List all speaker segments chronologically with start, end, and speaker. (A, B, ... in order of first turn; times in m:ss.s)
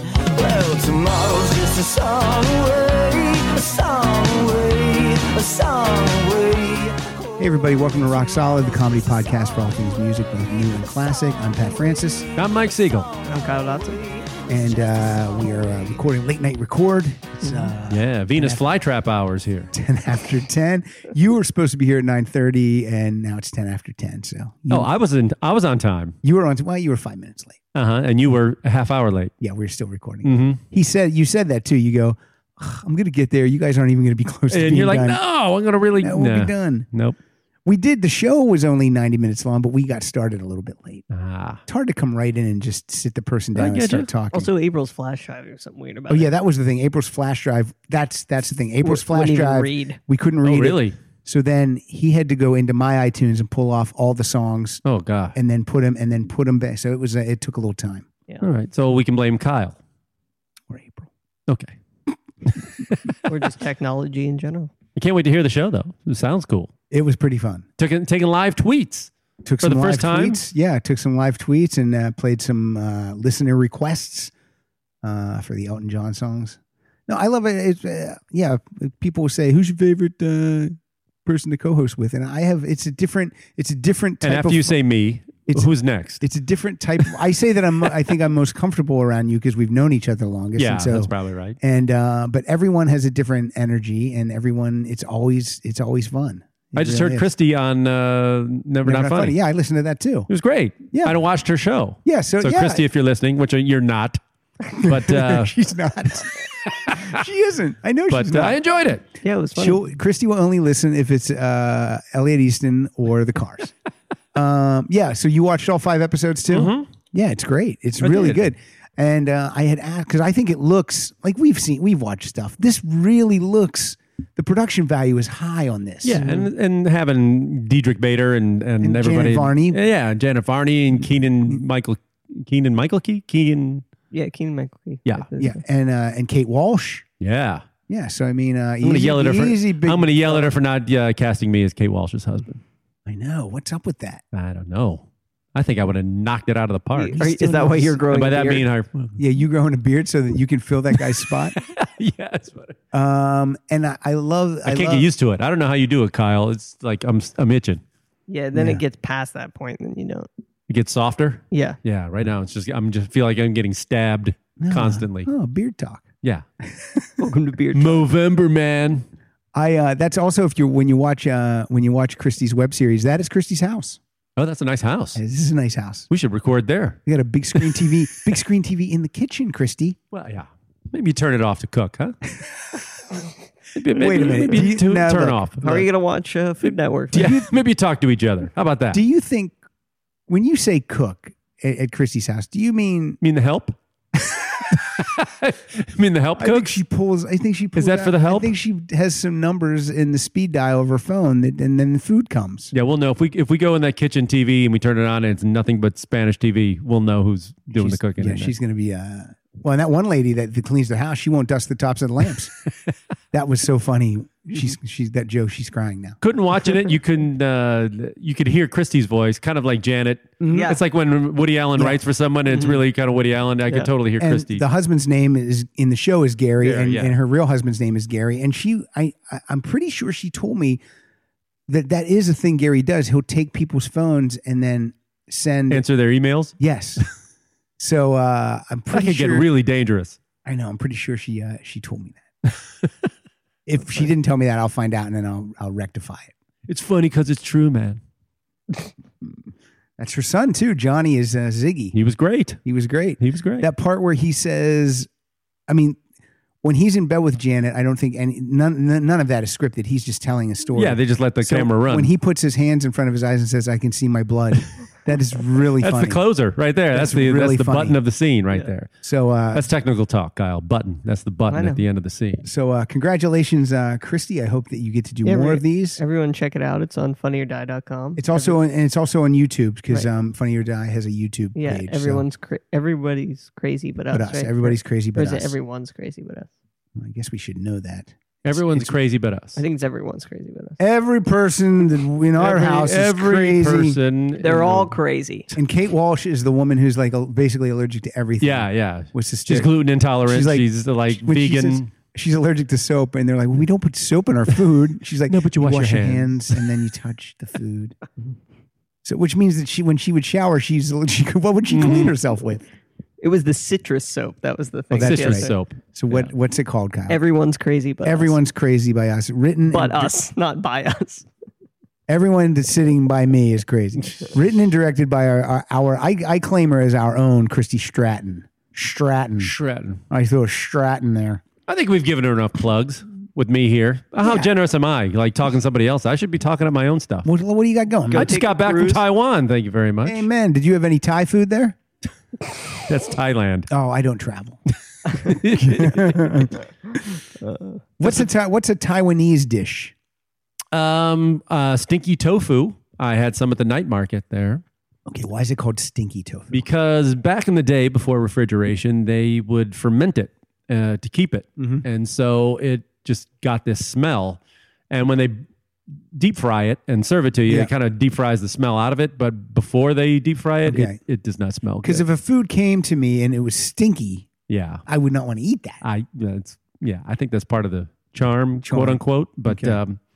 0:00.4-0:07.0 A
0:07.4-0:12.3 B
0:12.4-0:13.1 C
0:13.2-0:14.0 D
0:14.4-0:18.6 B
0:17.9-0:19.7 C
0:19.7-0:24.9 B
0:24.7-0:26.1 C
0:26.2-0:27.6 B
0:27.7-0:29.3 C
0:29.4-0:35.2 B
0:30.2-0:30.6 C
0:34.5-0:37.2 C
0:36.0-0:36.9 B
0:37.6-0:41.0 B
0:41.1-0:41.6 C
0:41.7-0:44.5 B
0:43.5-0:44.1 C
0:44.3-0:46.3 D
0:46.1-0:54.8 B
0:48.8-0:50.0 D
0:50.4-0:51.0 C
0:54.8-0:55.3 C
0:55.3-0:58.1 B
0:58.4-0:59.8 C
1:00.7-1:01.1 B
1:01.5-1:01.7 C
1:02.8-1:03.2 C
1:03.2-1:04.7 D
1:05.0-1:06.7 C
1:06.9-1:07.6 B
1:07.8-1:10.4 C
1:09.4-1:14.3 B
1:15.0-1:24.8 B
1:24.2-1:26.2 C
1:26.2-1:37.3 B
1:30.6-1:31.6 C
1:36.7-1:39.4 C
1:38.8-1:40.3 B
1:40.3-1:44.2 C
1:40.9-1:41.2 B
1:42.0-1:42.8 B
1:44.7-1:48.6 B
1:44.8-1:45.5 C
1:46.8-1:47.2 C
1:48.1-1:49.0 C
1:49.2-1:49.8 D
1:49.6-1:53.7 B
1:54.3-2:06.2 B
1:56.5-1:56.9 C
1:58.0-1:58.4 C
2:06.0-2:13.8 C
2:06.2-2:06.5 D
2:08.8-2:09.8 B
2:11.0-2:11.6 B
2:14.1-2:15.6 D
2:15.4-2:17.0 B
2:17.2-2:17.6 C
2:17.9-2:20.5 B
2:18.8-2:22.6 C
2:23.0-2:24.2 B
2:24.3-2:27.2 C
2:26.9-2:28.6 D
2:27.2-2:28.0 B
2:28.1-2:29.2 C
2:29.2-2:31.6 B
2:31.6-2:32.8 C
2:32.9-2:35.1 B
2:34.6-2:37.8 C
2:38.3-2:40.3 D
2:38.5-2:38.8 B
2:40.7-2:45.3 C
2:41.5-2:41.8 D
2:44.6-2:46.1 B
2:47.2-2:48.1 D
2:47.7-2:49.0 C
2:49.5-2:54.0 B
2:54.4-2:55.2 C
2:55.2-2:56.1 B
2:56.1-2:57.0 C
2:57.0-3:00.0 B
2:57.5-2:57.9 C
3:00.1-3:02.2 C
3:03.7-3:05.8 C
3:03.9-3:05.4 B
3:05.6-3:07.3 D
3:07.1-3:07.5 B
3:07.1-3:09.0 C
3:08.9-3:09.5 B
3:10.3-3:13.2 B
3:13.2-3:13.8 C
3:14.8-3:16.8 C
3:16.4-3:22.7 B
3:17.8-3:18.5 C
3:22.7-3:28.5 C
3:27.7-3:32.5 B
3:33.3-3:36.2 B
3:36.2-3:44.6 C
3:40.4-3:40.7 B
3:40.5-3:40.8 D
3:44.2-3:50.8 B
3:46.6-3:47.1 C
3:51.7-3:55.8 B
3:55.7-3:56.5 C
3:56.6-3:57.0 B
3:57.8-3:59.5 B
3:58.9-4:00.2 C
4:00.4-4:02.2 B
4:03.6-4:06.3 B
4:06.7-4:08.0 C
4:10.0-4:12.0 B
4:11.9-4:12.6 C
4:12.6-4:15.1 B
4:13.2-4:13.7 C
4:15.7-4:16.0 B
4:16.6-4:26.2 B
4:20.7-4:22.1 C
4:25.8-4:28.9 C
4:26.9-4:28.0 B
4:29.0-4:29.7 B
4:29.5-4:32.4 C
4:31.5-4:31.8 D
4:32.4-4:36.0 B
4:35.2-4:38.6 D
4:38.2-4:42.2 B
4:41.6-4:46.5 D
4:44.1-4:45.6 B
4:47.0-4:48.9 B
4:48.4-4:49.6 C
4:49.6-4:50.8 D
4:50.8-4:54.0 B
4:52.4-4:54.9 C
4:54.4-4:55.5 D
4:55.5-5:08.0 B
4:58.4-5:01.9 C
5:05.3-5:06.6 C
5:09.0-5:12.7 B
5:11.7-5:12.1 C
5:13.2-5:15.5 D
5:14.9-5:17.2 B
5:14.9-5:16.3 C
5:17.1-5:18.4 D
5:18.0-5:20.1 B
5:19.7-5:21.3 D
5:22.1-5:29.5 B
5:29.4-5:30.0 C
5:30.1-5:31.4 B
5:31.7-5:37.3 C
5:37.2-5:38.3 B
5:38.1-5:39.0 D
5:38.1-5:40.3 C
5:40.0-5:41.8 B
5:42.8-5:43.7 C
5:43.7-5:44.6 B
5:45.1-5:46.5 C
5:45.6-5:46.5 B
5:47.4-5:47.8 D
5:48.0-5:49.9 B
5:50.7-5:54.6 C
5:55.1-5:56.7 B
5:56.5-6:04.4 C
6:01.6-6:01.8 B
6:04.9-6:05.4 C
6:06.1-6:12.0 C
6:10.6-6:11.0 B
6:11.8-6:14.3 B
6:14.5-6:14.8 C
6:14.9-6:15.8 B
6:15.8-6:20.0 C
6:18.6-6:19.8 B